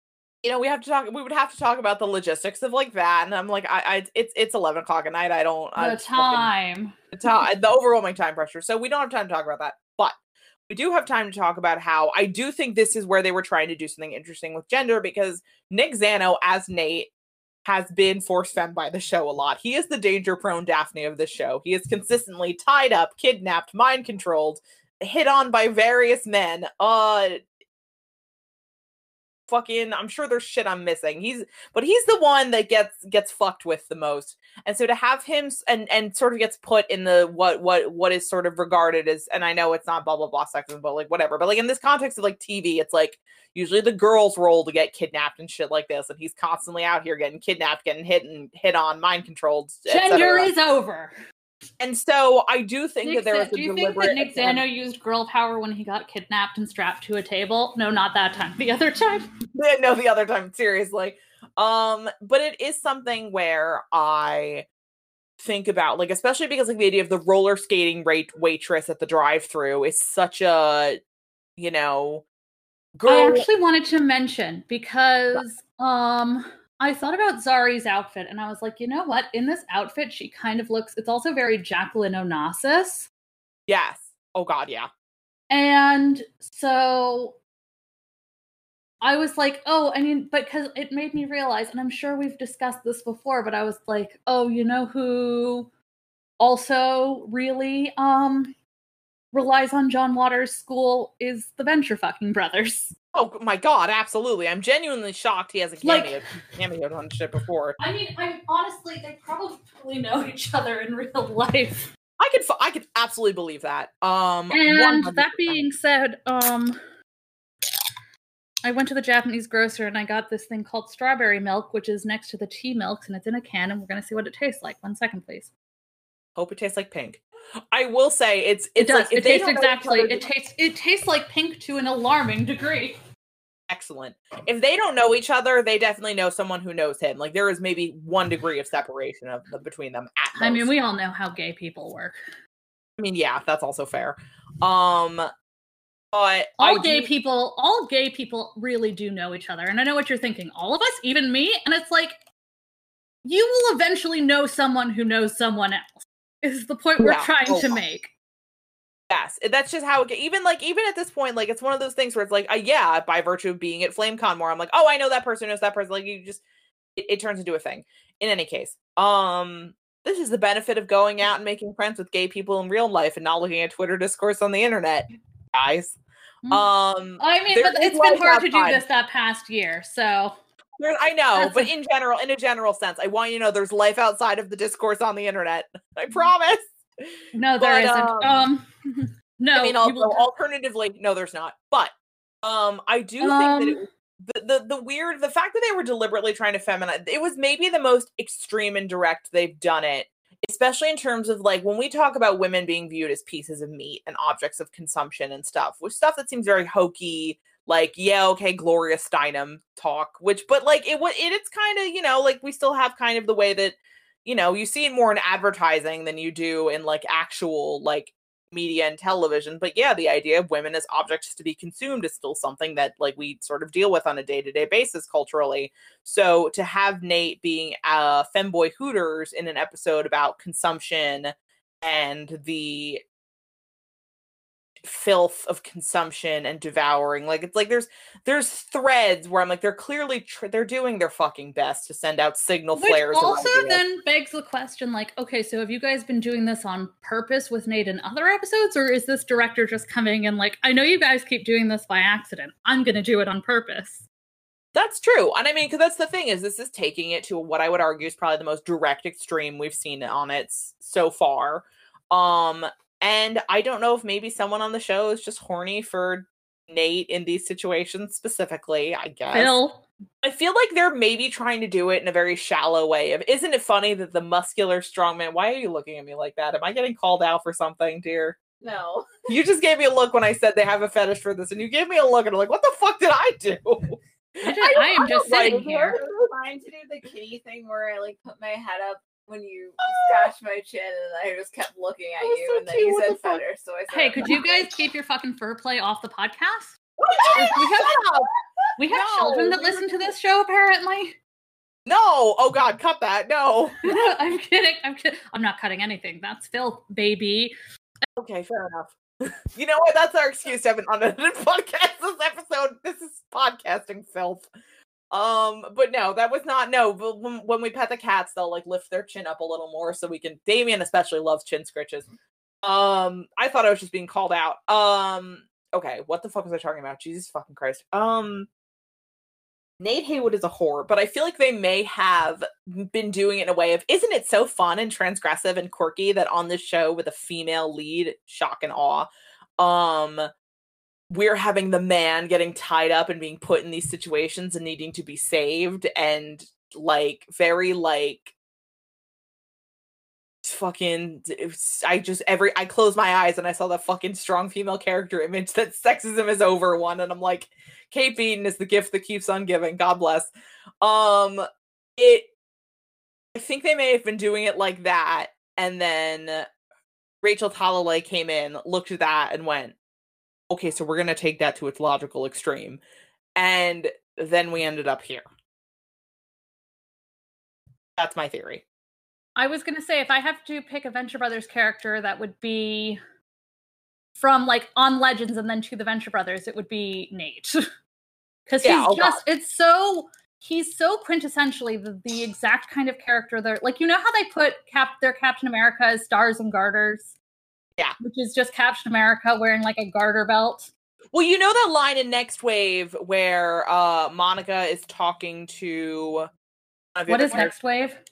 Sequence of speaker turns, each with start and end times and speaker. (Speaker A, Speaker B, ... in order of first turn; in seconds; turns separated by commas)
Speaker A: 0.4-6.5, Speaker B: 5.8-6.9, Speaker A: 7.1-10.1, Speaker A: 10.7-17.1, Speaker A: 17.6-27.4, Speaker A: 29.5-50.5, Speaker B: 49.9-51.2, Speaker A: 51.8-54.6, Speaker B: 53.0-59.3, Speaker A: 59.5-64.7, Speaker A: 65.4-71.0, Speaker A: 71.6-72.2, Speaker A: 73.0-73.5, Speaker B: 73.1-83.1, Speaker A: 83.7-84.9, Speaker B: 85.5-87.4, Speaker B: 89.0-95.7, Speaker B: 96.4-98.5, Speaker B: 99.3-102.9, Speaker A: 103.1-107.8, Speaker B: 105.8-106.2, Speaker B: 107.8-111.9, Speaker A: 112.2-115.6, Speaker B: 114.5-116.8, Speaker B: 118.6-125.5, Speaker A: 126.3-130.2, Speaker B: 128.8-133.0, Speaker A: 133.7-140.7, Speaker B: 140.3-142.1, Speaker A: 143.0-145.3, Speaker A: 146.1-147.1, Speaker B: 146.6-152.2, Speaker B: 153.2-158.1, Speaker A: 157.0-157.7, Speaker A: 159.1-166.4, Speaker A: 166.9-176.0, Speaker A: 176.5-178.8, Speaker B: 177.2-180.4, Speaker A: 180.8-188.5, Speaker B: 181.3-181.7, Speaker B: 187.3-190.2, Speaker A: 189.5-191.9, Speaker A: 192.4-233.0, Speaker B: 193.2-193.8, Speaker A: 234.8-243.8, Speaker B: 242.8-254.1, Speaker A: 254.7-269.6, Speaker B: 269.3-269.8, Speaker A: 270.2-278.4, Speaker C: 278.6-279.3, Speaker A: 279.3-286.0, Speaker B: 284.4-286.0, Speaker C: 285.3-294.6, Speaker A: 289.8-290.3, Speaker A: 292.2-293.4, Speaker B: 293.9-296.8, Speaker A: 297.0-298.3, Speaker B: 297.3-298.0, Speaker B: 298.8-301.2, Speaker A: 298.9-299.9, Speaker A: 301.9-304.0, Speaker B: 303.8-307.5, Speaker A: 308.1-314.5, Speaker A: 315.1-322.1, Speaker A: 322.6-328.5, Speaker A: 329.8-339.1, Speaker A: 339.6-340.3, Speaker A: 341.1-348.3, Speaker A: 350.4-360.3, Speaker A: 360.8-361.4, Speaker A: 362.0-362.3, Speaker A: 363.3-366.5, Speaker A: 367.2-369.7, Speaker A: 370.5-372.8, Speaker A: 373.4-375.2, Speaker A: 378.0-378.6, Speaker B: 379.4-383.0, Speaker B: 384.1-387.6, Speaker B: 388.5-397.1, Speaker A: 388.6-389.2, Speaker B: 398.0-400.7, Speaker A: 401.1-406.3, Speaker A: 406.9-407.5, Speaker B: 407.1-408.0